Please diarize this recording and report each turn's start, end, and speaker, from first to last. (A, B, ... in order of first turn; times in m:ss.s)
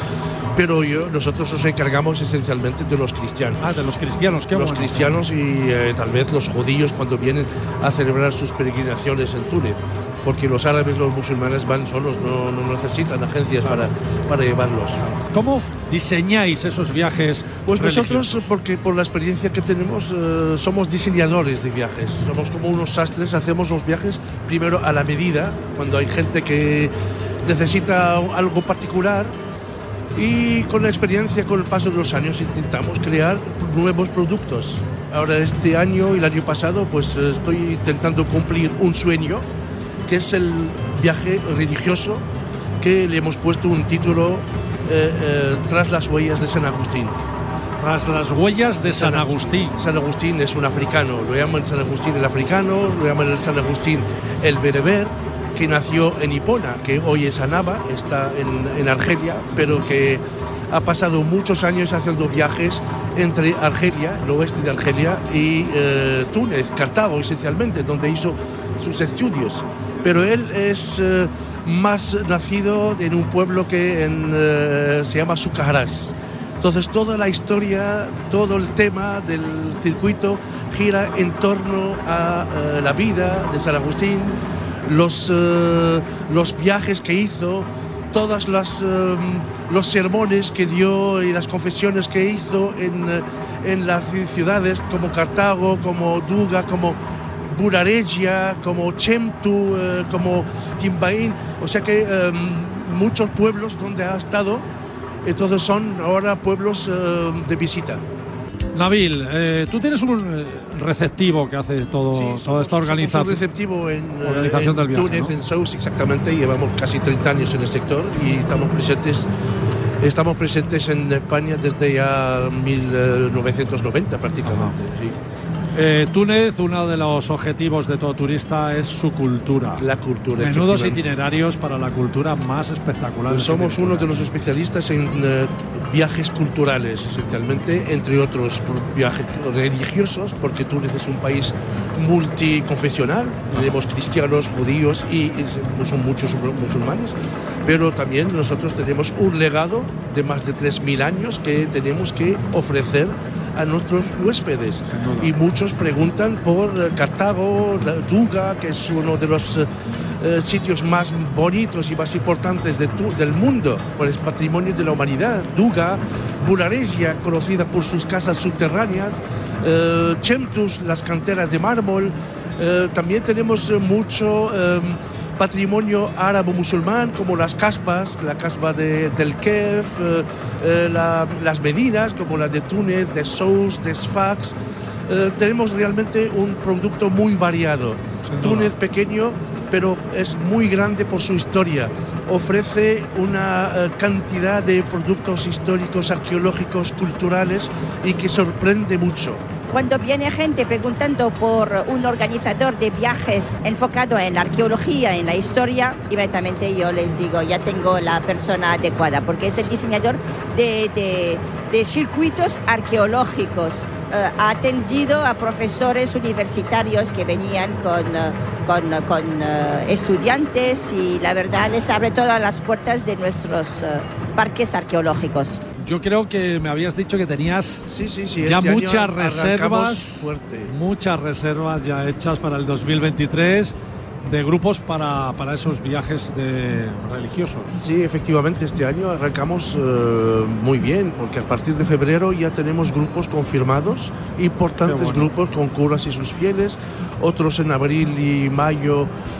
0:00.5-0:03.9 A
0:03.6-0:05.2 B
0:04.5-0:15.0 A
0:13.6-0:13.9 B
0:15.0-0:18.5 B
0:17.6-0:26.9 A
0:27.4-0:29.3 A
0:30.2-0:39.5 A
0:40.1-0:42.2 A
0:42.8-0:47.2 A
0:47.8-0:49.8 B
0:48.9-1:37.0 A
1:37.5-1:44.7 A
1:45.2-1:48.0 A
1:48.7-1:53.4 B
1:52.1-1:59.3 A
1:54.2-1:55.4 B
2:00.0-2:05.2 A
2:04.4-2:04.8 B
2:05.8-2:09.8 B
2:09.8-2:11.0 A
2:10.4-2:14.3 B
2:13.3-2:39.7 A
2:34.9-2:35.3 B
2:40.2-3:04.6 A
3:05.1-3:19.4 A
3:08.2-3:08.7 B
3:19.7-3:45.6 C
3:45.8-3:47.8 B
3:47.9-3:50.7 A
3:48.4-3:57.8 B
3:57.8-4:09.1 A
4:04.8-4:05.3 B